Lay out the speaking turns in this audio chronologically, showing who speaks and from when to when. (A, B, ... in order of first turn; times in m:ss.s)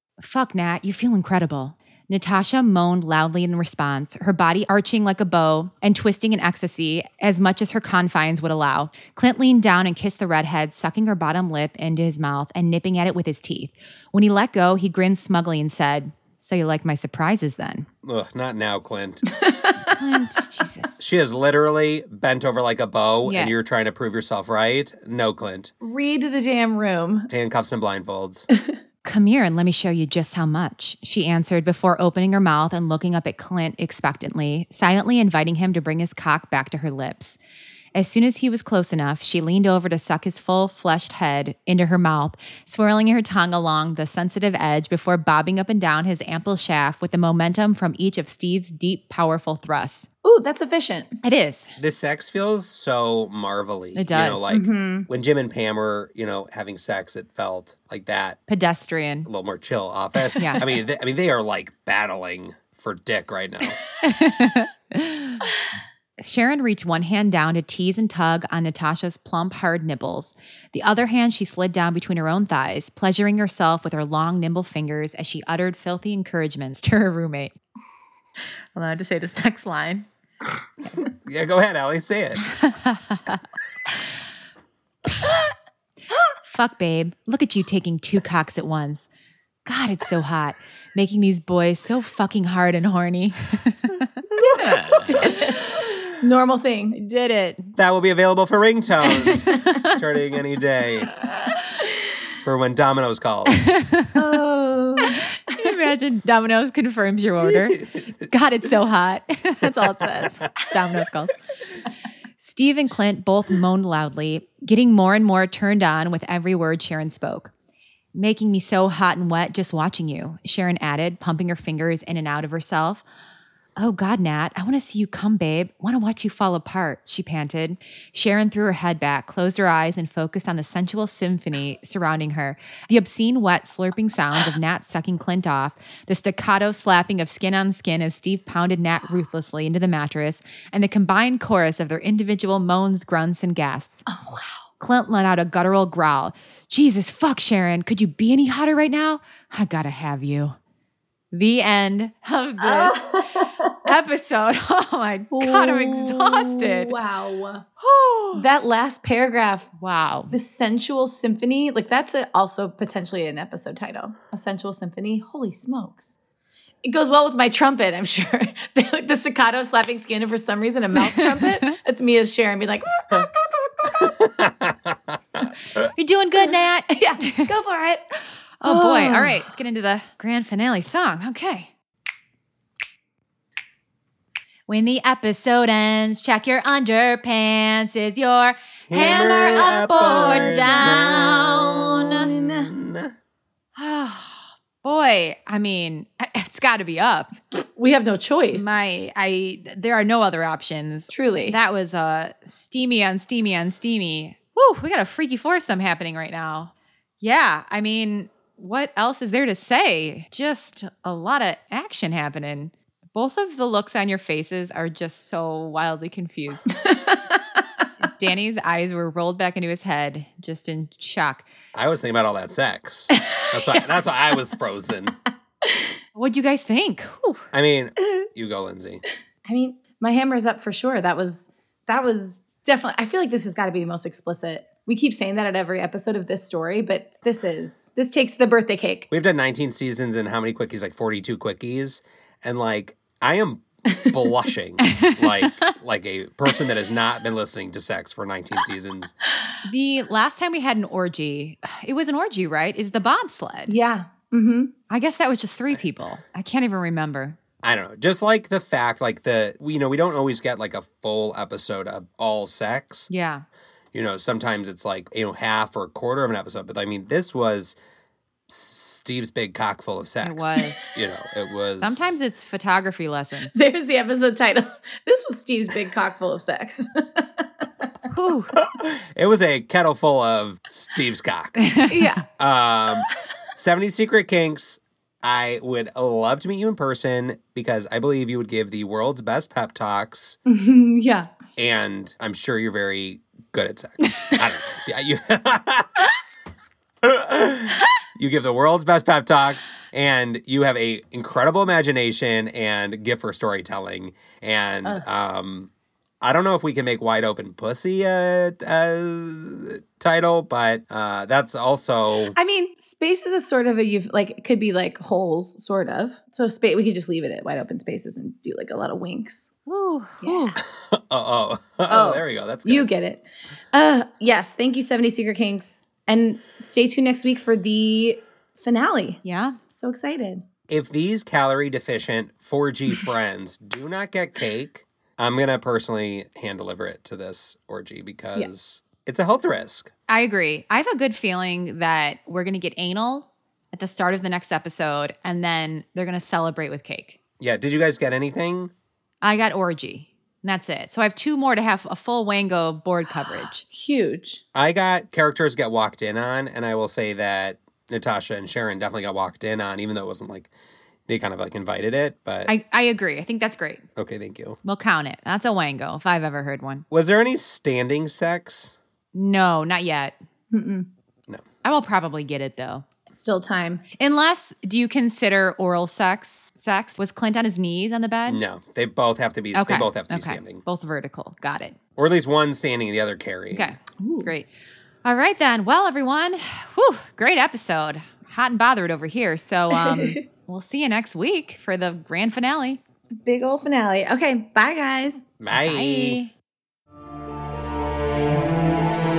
0:00.2-0:17.9 A
0:18.0-0:19.3 B
0:19.4-0:19.8 C
0:19.8-0:21.0 A
0:21.0-0:25.7 B
0:23.2-0:23.5 A
0:25.8-0:27.3 C
0:27.3-0:28.5 B
0:29.0-0:37.4 A
0:38.0-0:50.1 A
0:50.2-0:51.2 C
0:51.2-0:51.8 A
0:51.8-0:58.4 B
0:54.0-0:54.5 A
0:54.5-0:55.1 C
0:58.5-0:59.3 A
0:59.3-1:03.8 B
1:00.4-1:00.7 A
1:04.0-1:05.5 A
1:06.2-1:17.6 A
1:18.8-1:20.1 A
1:21.0-1:22.4 B
1:22.5-1:24.0 A
1:26.4-1:29.1 A
1:29.7-1:35.8 A
1:34.9-1:37.0 C
1:37.0-1:37.8 A
1:37.8-1:41.1 B
1:39.1-1:40.0 A
1:42.4-1:43.7 B
1:43.5-1:44.2 A
1:44.2-1:45.7 C
1:45.0-1:51.3 A
1:52.4-1:57.5 A
1:58.1-2:03.0 A
2:03.8-2:24.0 A
2:24.1-2:24.6 C
2:24.8-2:30.6 A
2:31.3-2:37.0 A
2:32.6-2:33.8 C
2:35.3-2:37.7 C
2:37.8-2:38.4 A
2:38.3-2:39.7 C
2:39.8-2:40.4 A
2:40.3-2:46.2 C
2:46.8-2:54.0 C
2:51.2-2:51.4 A
2:53.8-2:55.8 B
2:56.0-2:57.5 A
2:56.9-2:58.0 C
2:58.6-3:01.7 A
2:58.6-2:59.4 C
3:04.7-3:12.3 A
3:08.9-3:13.1 B
3:09.3-3:11.4 C
3:12.1-3:12.7 C
3:13.8-3:17.4 A
3:17.8-3:18.7 C
3:18.5-3:36.8 A
3:21.1-3:21.6 C
3:36.7-3:37.4 C
3:38.0-3:41.5 A
3:41.7-3:45.1 B
3:43.2-3:43.8 C
3:46.2-3:47.5 A
3:47.5-3:49.0 B
3:49.5-3:59.1 C
3:59.1-4:09.2 B
4:04.8-4:05.2 A
4:09.6-4:13.7 A
4:13.7-4:14.7 C
4:14.9-4:17.4 A
4:17.6-4:23.1 B
4:23.1-4:23.4 A
4:23.9-4:27.8 B
4:28.5-4:32.2 B
4:30.2-4:30.9 A
4:31.8-4:33.6 A
4:33.5-4:37.4 C
4:38.1-4:38.6 A
4:38.6-4:41.7 B
4:41.6-4:42.1 A
4:41.9-4:42.3 C
4:42.4-4:50.4 B
4:50.5-4:51.3 C
4:51.6-4:56.0 B
4:57.0-5:12.4 B
5:12.4-5:19.5 C
5:19.7-5:20.6 A
5:20.2-5:20.6 C
5:20.7-5:22.9 B
5:21.9-5:30.4 C
5:29.2-5:29.6 A
5:30.7-5:39.9 B
5:40.1-5:47.2 A
5:47.4-5:48.7 B
5:49.2-5:53.6 A
5:53.7-5:54.4 C
5:54.6-6:00.5 B
6:01.1-6:02.5 B
6:02.5-6:03.8 A
6:04.0-6:04.6 B
6:04.6-6:06.9 A
6:06.9-6:08.8 B
6:09.1-6:10.2 A
6:10.5-6:10.9 C
6:11.6-6:12.8 A
6:13.1-6:13.8 C
6:14.0-6:18.4 A
6:18.3-6:20.6 B
6:19.5-6:21.8 A
6:22.0-6:23.8 B
6:23.5-6:24.5 A
6:25.0-6:32.8 A
6:29.8-6:30.2 C
6:33.2-6:35.2 C
6:35.4-6:36.2 B
6:35.5-6:36.3 A